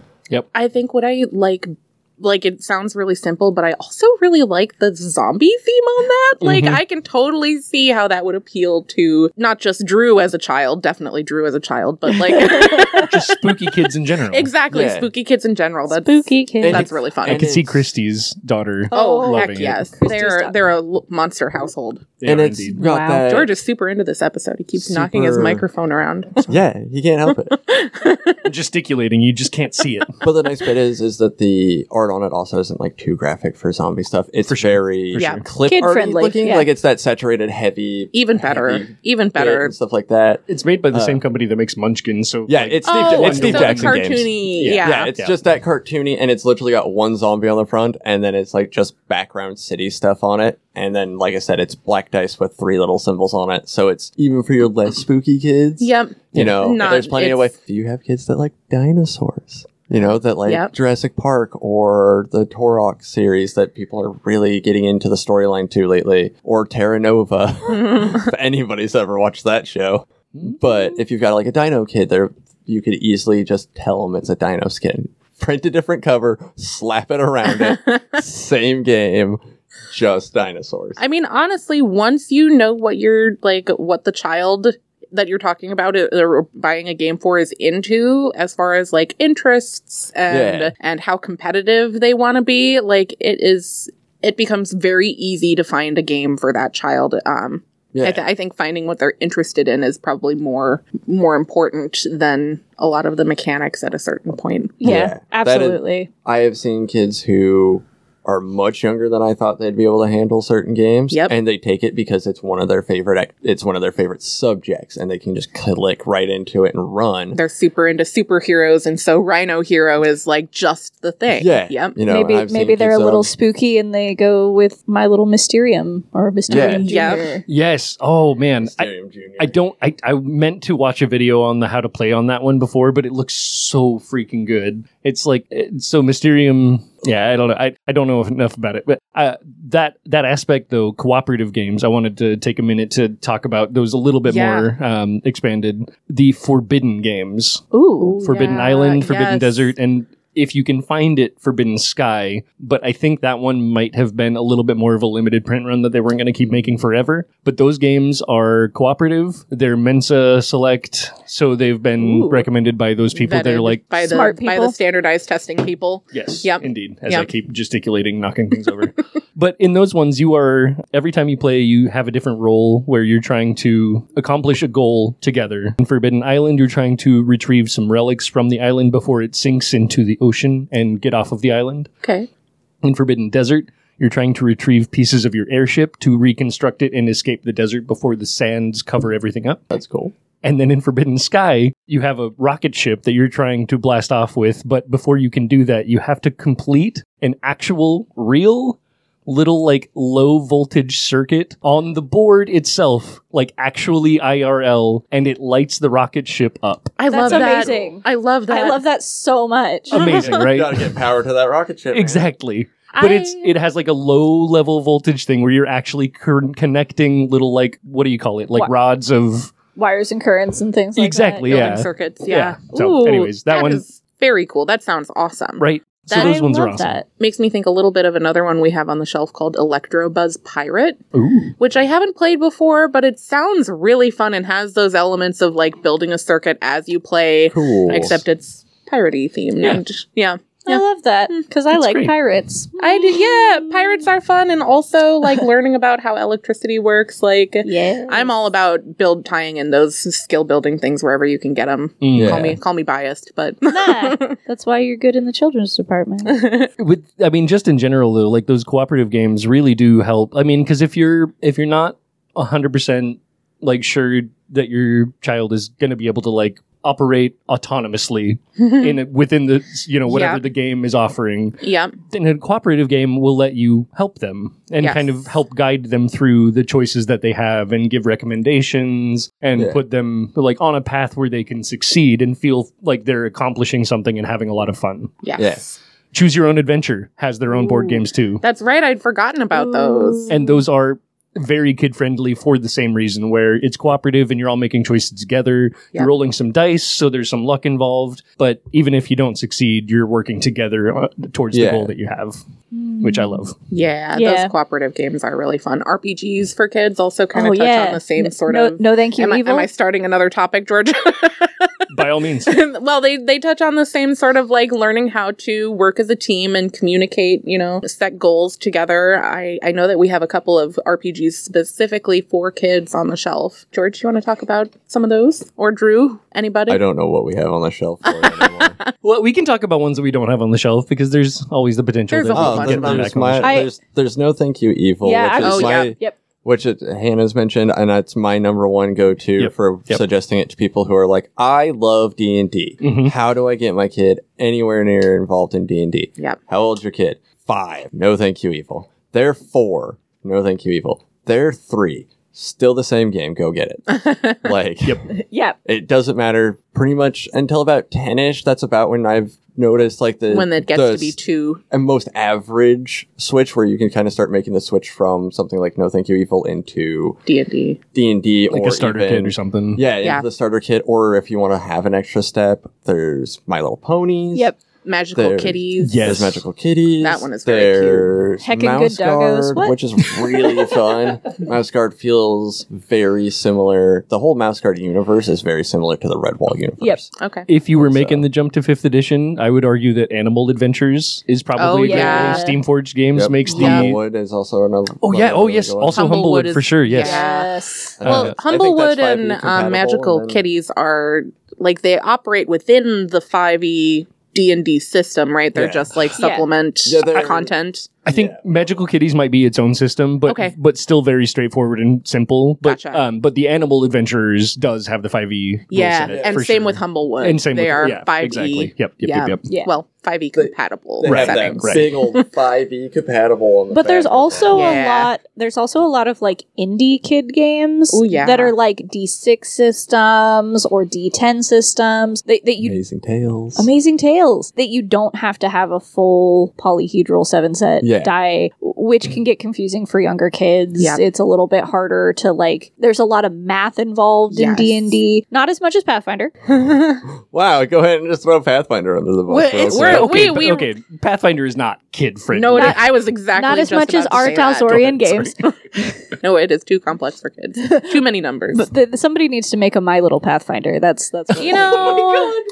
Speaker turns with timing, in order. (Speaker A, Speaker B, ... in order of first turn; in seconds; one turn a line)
Speaker A: 0.5-13.2
Speaker B: 6.4-6.8
Speaker C: 12.2-13.1
Speaker B: 12.9-14.5
Speaker A: 14.3-17.5
Speaker D: 14.7-15.1
Speaker C: 15.9-16.9
Speaker D: 16.6-17.9
Speaker B: 17.2-19.8
Speaker C: 18.9-20.6
Speaker A: 18.9-22.1
Speaker B: 22.2-22.8
Speaker D: 22.2-23.5
Speaker C: 22.8-23.2
Speaker A: 23.2-26.5
Speaker D: 24.8-25.6
Speaker D: 26.4-27.6
Speaker A: 27.6-28.4
Speaker B: 28.4-30.2
Speaker D: 30.2-41.2
Speaker B: 34.4-35.5
Speaker A: 35.1-35.4
Speaker C: 35.6-36.7
Speaker A: 38.1-39.7
Speaker B: 40.5-45.3
Speaker D: 42.5-81.0
Speaker A: 42.8-45.1
Speaker A: 55.8-57.5
Speaker A: 60.5-60.7
Speaker A: 67.7-68.3
Speaker A: 77.6-78.0
Speaker A: 81.0-105.0
Speaker D: 90.3-90.7
Speaker D: 97.9-98.2
Speaker C: 104.8-106.1
Speaker D: 104.8-117.4
Speaker A: 117.3-122.0
Speaker D: 121.3-123.3
Speaker C: 122.0-127.4
Speaker D: 126.5-126.9
Speaker A: 126.6-127.3
Speaker B: 127.5-147.6
Speaker D: 128.6-129.6
Speaker A: 144.3-144.7
Speaker C: 147.7-148.2
Speaker A: 148.0-149.7
Speaker B: 148.2-163.8
Speaker C: 162.0-162.4
Speaker A: 163.1-167.3
Speaker C: 164.0-164.8
Speaker B: 166.1-181.9
Speaker B: 182.8-189.7
Speaker D: 189.7-190.1
Speaker B: 190.4-207.7
Speaker A: 207.0-208.8
Speaker C: 207.1-210.0
Speaker B: 209.9-210.9
Speaker A: 209.9-210.4
Speaker D: 210.1-212.3
Speaker B: 211.9-219.5
Speaker A: 212.9-213.5
Speaker C: 219.8-221.7
Speaker B: 220.9-223.8
Speaker A: 221.5-226.4
Speaker B: 225.6-226.9
Speaker C: 226.1-227.1
Speaker A: 227.2-231.0
Speaker B: 231.1-231.5
Speaker A: 231.6-240.8
Speaker D: 237.5-238.2
Speaker C: 240.7-244.1
Speaker B: 241.7-242.1
Speaker A: 242.8-254.3
Speaker C: 247.6-248.3
Speaker B: 252.0-252.6
Speaker D: 252.1-252.6
Speaker C: 253.7-256.4
Speaker A: 256.3-256.7
Speaker B: 256.8-285.1
Speaker A: 268.6-269.0
Speaker A: 270.1-270.4
Speaker A: 271.6-271.9
Speaker A: 274.8-275.2
Speaker A: 285.2-285.7
Speaker D: 285.4-285.6
Speaker B: 286.1-288.4
Speaker A: 288.4-290.3
Speaker C: 289.5-290.6
Speaker B: 290.3-302.4
Speaker D: 301.5-301.9
Speaker C: 302.7-303.4
Speaker B: 303.0-303.6
Speaker A: 303.7-311.7
Speaker C: 304.1-304.5
Speaker C: 307.3-309.7
Speaker B: 311.9-312.6
Speaker A: 312.4-326.8
Speaker D: 326.7-328.8
Speaker A: 328.1-328.9
Speaker B: 329.0-333.6
Speaker A: 332.1-333.1
Speaker D: 332.3-355.1
Speaker C: 333.4-333.7
Speaker C: 335.0-336.1
Speaker A: 335.4-335.9
Speaker B: 339.4-340.0
Speaker B: 342.8-343.1
Speaker A: 353.9-354.4
Speaker C: 355.1-355.6
Speaker D: 355.6-361.2
Speaker A: 360.3-361.6
Speaker D: 361.7-367.2
Speaker A: 367.2-367.8
Speaker D: 367.9-374.5
Speaker B: 368.5-369.8
Speaker A: 374.8-376.1
Speaker D: 375.1-387.1
Speaker B: 375.8-376.4
Speaker A: 377.0-378.1
Speaker C: 378.4-379.8
Speaker A: 387.2-387.5
Speaker B: 387.5-394.0
Speaker D: 387.8-388.3
Speaker A: 391.6-392.4
Speaker C: 391.8-392.6
Speaker D: 393.1-396.1
Speaker A: 393.5-393.9
Speaker B: 395.0-397.2
Speaker A: 395.9-407.9
Speaker C: 396.9-398.0
Speaker D: 398.0-400.4
Speaker B: 398.0-398.4
Speaker D: 405.5-406.1
Speaker C: 406.2-406.5
Speaker D: 406.8-407.5
Speaker B: 408.0-419.4
Speaker D: 408.1-408.4
Speaker A: 410.2-410.5
Speaker A: 412.6-413.0
Speaker A: 415.7-422.3
Speaker D: 416.1-416.4
Speaker C: 419.4-419.7
Speaker D: 420.3-424.8
Speaker B: 421.0-421.9
Speaker C: 423.7-432.8
Speaker A: 424.5-425.1
Speaker A: 427.9-428.5
Speaker D: 432.6-433.7
Speaker C: 433.6-446.3
Speaker D: 437.8-438.1
Speaker A: 440.8-441.0
Speaker A: 444.3-444.9
Speaker A: 446.5-447.0
Speaker D: 447.2-450.4
Speaker B: 449.3-452.9
Speaker A: 449.6-450.7
Speaker A: 452.3-454.9
Speaker C: 452.5-455.4
Speaker B: 454.7-455.3
Speaker A: 456.2-458.7
Speaker C: 457.6-457.9
Speaker C: 458.5-462.3
Speaker A: 461.4-462.4
Speaker B: 461.5-462.3